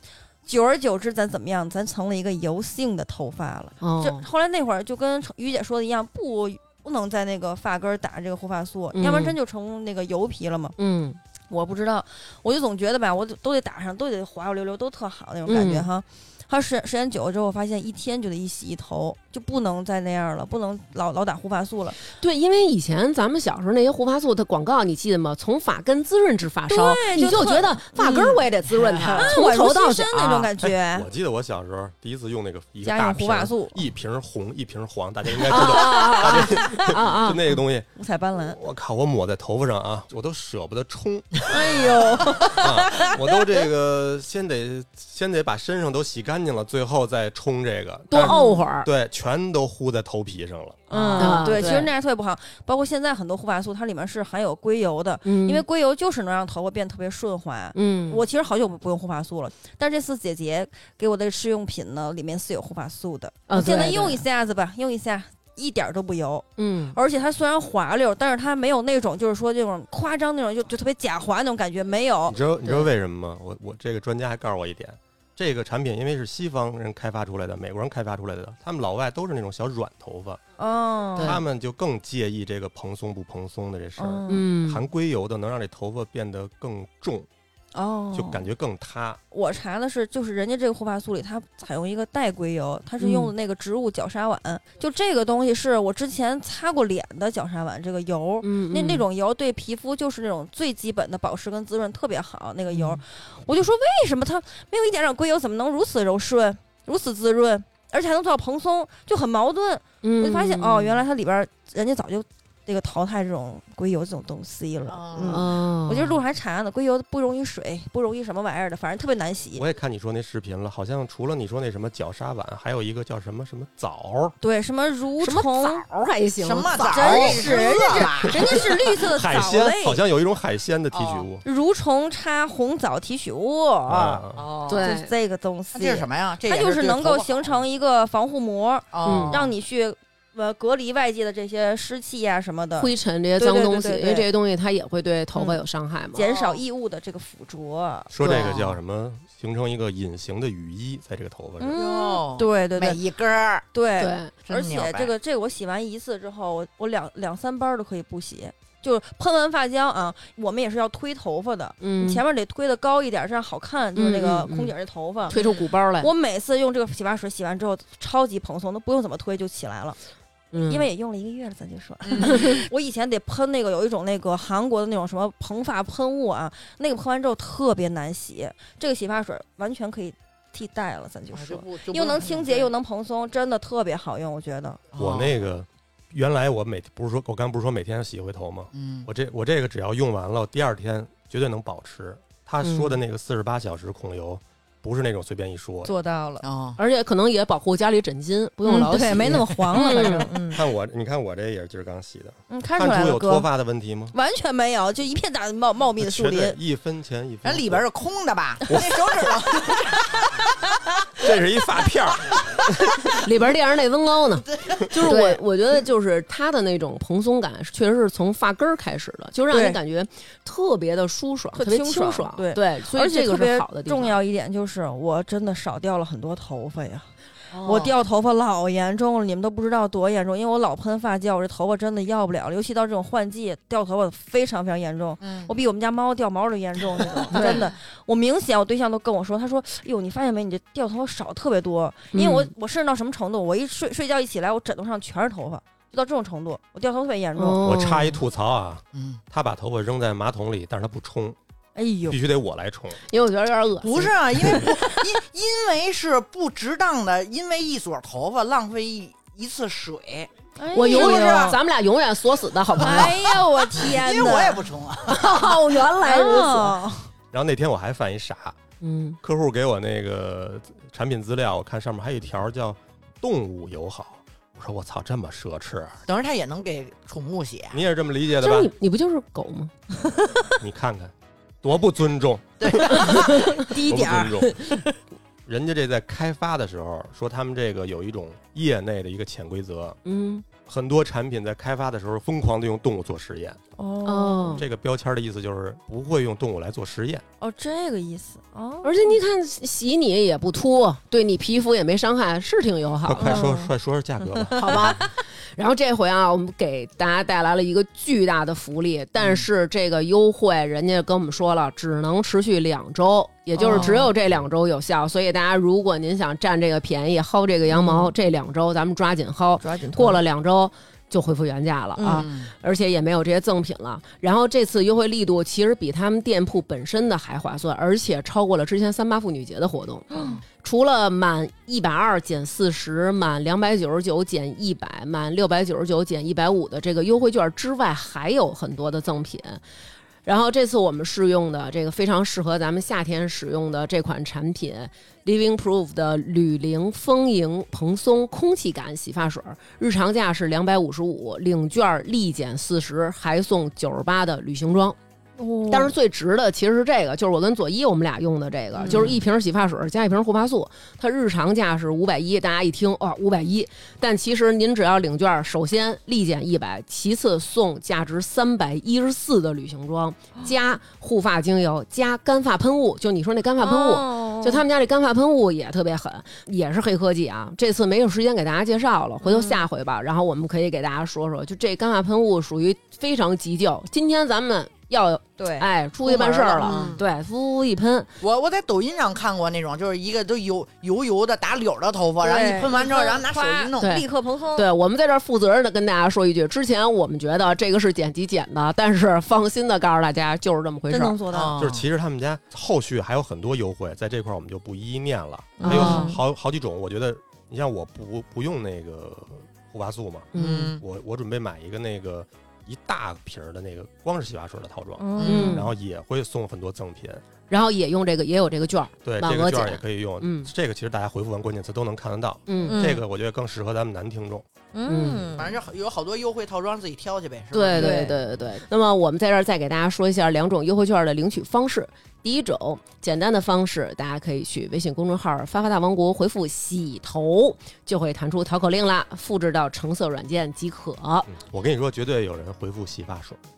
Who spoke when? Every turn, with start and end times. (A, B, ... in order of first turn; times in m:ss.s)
0:00.5-0:10.8 A
0:03.8-0:04.2 B
0:08.9-0:09.4 B
0:10.8-0:11.2 B
0:11.5-0:22.0 A
0:15.5-0:15.9 B
0:22.1-0:30.5 B
0:26.7-0:28.4 A
0:28.7-0:29.3 C
0:29.0-0:31.1 A
0:30.9-0:37.9 D
0:32.8-0:33.8 A
0:35.5-0:37.6 B
0:38.0-0:38.6 A
0:38.5-0:42.0 D
0:41.5-0:43.3 A
0:42.6-0:50.9 D
0:48.1-0:48.9 B
0:48.2-0:48.6 A
0:50.9-1:12.4 A
0:50.9-0:51.5 C
0:51.2-0:51.9 B
0:55.2-0:55.6 B
0:57.7-0:58.2 B
1:03.5-1:04.2 B
1:06.6-1:07.0 B
1:12.3-1:20.4 D
1:20.6-1:21.4 A
1:21.2-1:27.3 D
1:24.0-1:24.4 A
1:24.3-1:24.8 B
1:27.7-1:28.4 A
1:28.1-1:29.2 D
1:29.3-1:59.6 A
1:33.0-1:33.3 B
1:38.4-1:39.0 B
1:42.7-1:43.0 B
1:50.0-1:51.0 B
1:54.9-1:55.5 C
1:55.2-1:56.2 B
1:59.6-2:04.4 D
2:04.4-2:05.8 A
2:05.2-2:08.1 B
2:06.4-2:08.6 C
2:06.9-2:10.0 A
2:09.1-2:11.4 D
2:10.9-2:11.3 C
2:11.4-2:24.3 A
2:13.9-2:14.5 D
2:14.3-2:14.9 C
2:14.7-2:15.1 B
2:15.7-2:17.6 C
2:18.9-2:19.5 C
2:19.0-2:19.4 B
2:22.8-2:26.3 B
2:26.1-2:28.1 A
2:26.2-2:26.6 C
2:28.1-2:31.8 D
2:28.2-2:28.6 B
2:28.2-2:28.8 C
2:31.6-2:33.0 A
2:31.8-2:33.6 C
2:33.7-2:50.0 A
2:34.0-2:34.3 B
2:34.4-2:35.1 C
2:41.8-2:42.2 B
2:44.0-2:44.7 B
2:45.3-2:46.1 B
2:50.5-2:50.9 B
2:50.7-3:04.8 A
2:52.0-2:52.6 C
2:52.3-2:52.6 B
3:01.3-3:02.7 C
3:04.9-3:05.3 C
3:05.0-3:15.9 D
3:08.7-3:09.1 C
3:12.6-3:13.0 B
3:15.8-3:16.5 A
3:16.4-3:16.8 C
3:16.8-3:20.3 B
3:18.6-3:20.6 A
3:20.5-3:24.2 D
3:22.5-3:23.5 A
3:24.1-3:26.6 A
3:26.0-3:27.9 D
3:27.4-3:30.4 C
3:28.7-3:29.4 D
3:31.2-3:32.9 D
3:33.2-3:44.2 B
3:34.6-3:34.8 C
3:34.9-3:35.4 A
3:39.5-3:39.8 A
3:41.6-3:47.1 A
3:47.5-3:47.9 B
3:47.6-4:07.7 A
3:55.2-3:55.5 C
3:57.2-3:57.6 C
3:57.3-3:57.7 B
4:02.1-4:02.5 B
4:07.4-4:08.2 B
4:07.6-4:11.4 D
4:08.9-4:09.2 C
4:11.8-4:12.2 A
4:12.1-4:13.0 D
4:13.1-4:14.6 B
4:13.8-4:20.3 C
4:20.6-4:21.6 A
4:20.7-4:23.2 B
4:20.8-4:21.6 C
4:22.8-4:24.7 A
4:22.8-4:25.3 C
4:25.1-4:26.8 B
4:26.0-4:27.1 A
4:27.3-4:28.6 D
4:28.8-4:29.2 B
4:29.2-4:36.0 D
4:36.1-4:37.8 C
4:37.7-4:38.7 D
4:38.4-4:39.7 B
4:40.6-4:44.8 D
4:42.6-4:43.6 C
4:43.1-4:44.9 A
4:43.3-4:43.6 B
4:45.5-4:50.0 D
4:50.0-4:50.4 B
4:50.6-4:53.6 D
4:53.8-4:54.6 A
4:54.0-4:54.6 B
4:54.5-4:57.2 D
4:57.4-4:59.2 A
4:58.8-5:03.5 B
5:03.0-5:05.0 D
5:03.2-5:03.7 A
5:04.4-5:04.8 A
5:04.6-5:39.6 B
5:13.6-5:14.1 A
5:17.7-5:18.1 A
5:19.6-5:20.2 A
5:22.0-5:22.3 A
5:22.1-5:22.5 C
5:30.1-5:30.4 A
5:40.2-5:55.0 B
5:55.4-5:55.9 A
5:55.7-6:28.1 B
5:58.8-5:59.2 A
6:13.6-6:14.6 A
6:19.2-6:19.7 A
6:25.4-6:27.0 A
6:26.6-6:27.0 C
6:28.2-6:34.0 C
6:32.2-6:34.7 A
6:33.8-6:41.2 B
6:40.9-6:41.6 A
6:41.3-6:41.8 C
6:41.6-6:57.2 D
6:45.6-6:46.2 A
6:45.6-6:46.2 B
6:50.3-6:50.8 B
6:50.4-6:50.8 C
6:55.0-6:55.6 A
6:55.2-6:55.6 C
6:55.2-6:55.7 B
6:57.5-7:00.5 B
6:59.0-7:04.4 D
7:02.5-7:03.0 B
7:02.6-7:03.0 A
7:04.7-7:05.6 A
7:04.9-7:05.5 B
7:05.4-7:08.0 C
7:07.5-7:21.3 B
7:07.7-7:08.2 A
7:21.3-7:23.4 D